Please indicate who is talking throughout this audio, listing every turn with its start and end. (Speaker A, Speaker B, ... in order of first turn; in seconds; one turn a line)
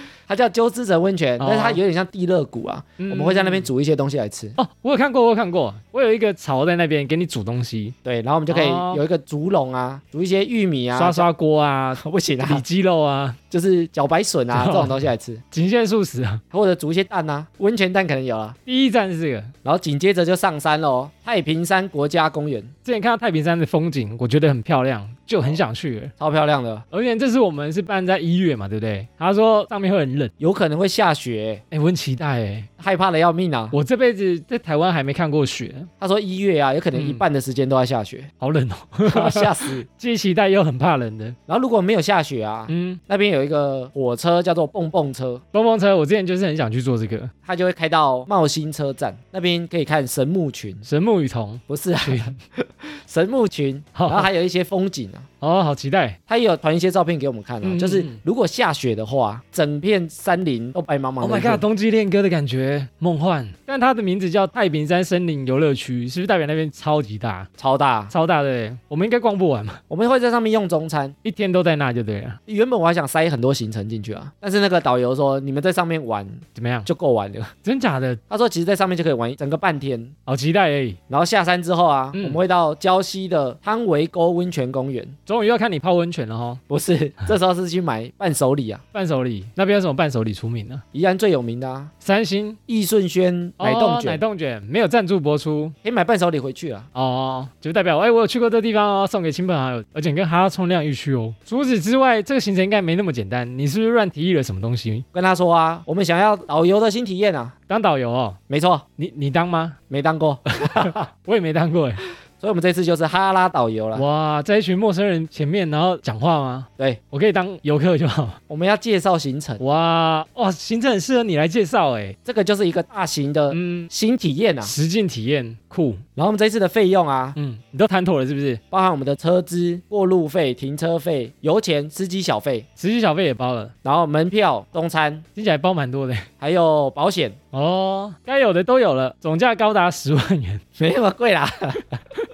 Speaker A: 0.3-4.6
Speaker B: 1.4-1.8
Speaker B: 3.0-3.7
Speaker B: 4.6-8.0
Speaker A: 8.1-11.3
Speaker B: 8.5-9.0
Speaker B: 10.9-13.4
Speaker A: 11.9-12.6
Speaker A: 13.5-15.4
Speaker B: 14.5-16.4
Speaker A: 16.5-18.6
Speaker B: 18.7-19.5
Speaker A: 19.6-22.7
Speaker B: 22.9-26.1
Speaker A: 26.2-26.9
Speaker B: 26.9-30.3
Speaker A: 30.4-31.6
Speaker B: 31.7-32.7
Speaker A: 32.8-33.8
Speaker B: 33.7-35.9
Speaker A: 36.0-38.3
Speaker B: 36.9-37.2
Speaker B: 38.4-41.4
Speaker A: 39.1-39.9
Speaker A: 41.5-45.4
Speaker B: 42.7-43.0
Speaker B: 45.5-47.3
Speaker A: 47.5-50.9
Speaker B: 50.9-52.4
Speaker A: 51.7-55.2
Speaker B: 54.0-54.3
Speaker B: 55.4-56.2
Speaker A: 56.3-61.6
Speaker B: 57.6-58.2
Speaker B: 61.2-67.5
Speaker A: 67.6-68.1
Speaker B: 68.1-69.8
Speaker A: 69.9-71.2
Speaker B: 71.2-72.4
Speaker A: 72.5-77.5
Speaker B: 76.5-76.9
Speaker B: 77.6-78.2
Speaker A: 78.3-80.1
Speaker B: 80.3-81.0
Speaker A: 81.1-85.2
Speaker B: 82.2-82.4
Speaker B: 85.3-86.6
Speaker A: 86.7-88.8
Speaker B: 88.9-90.8
Speaker A: 90.9-91.9
Speaker B: 92.0-92.6
Speaker A: 92.7-94.2
Speaker B: 93.6-95.8
Speaker A: 95.8-96.9
Speaker B: 97.0-105.0
Speaker A: 105.1-107.5
Speaker B: 107.7-108.4
Speaker A: 108.5-108.8
Speaker B: 109.0-109.8
Speaker A: 109.9-111.1
Speaker B: 110.6-112.0
Speaker A: 112.4-114.0
Speaker B: 114.0-118.4
Speaker A: 118.5-119.6
Speaker B: 119.6-122.2
Speaker A: 122.3-124.7
Speaker B: 123.5-123.9
Speaker B: 124.6-126.0
Speaker A: 126.2-127.4
Speaker B: 127.4-128.6
Speaker A: 128.7-132.7
Speaker B: 132.8-133.7
Speaker A: 133.8-135.2
Speaker B: 135.4-136.3
Speaker A: 136.4-137.4
Speaker B: 137.5-140.6
Speaker A: 140.8-142.0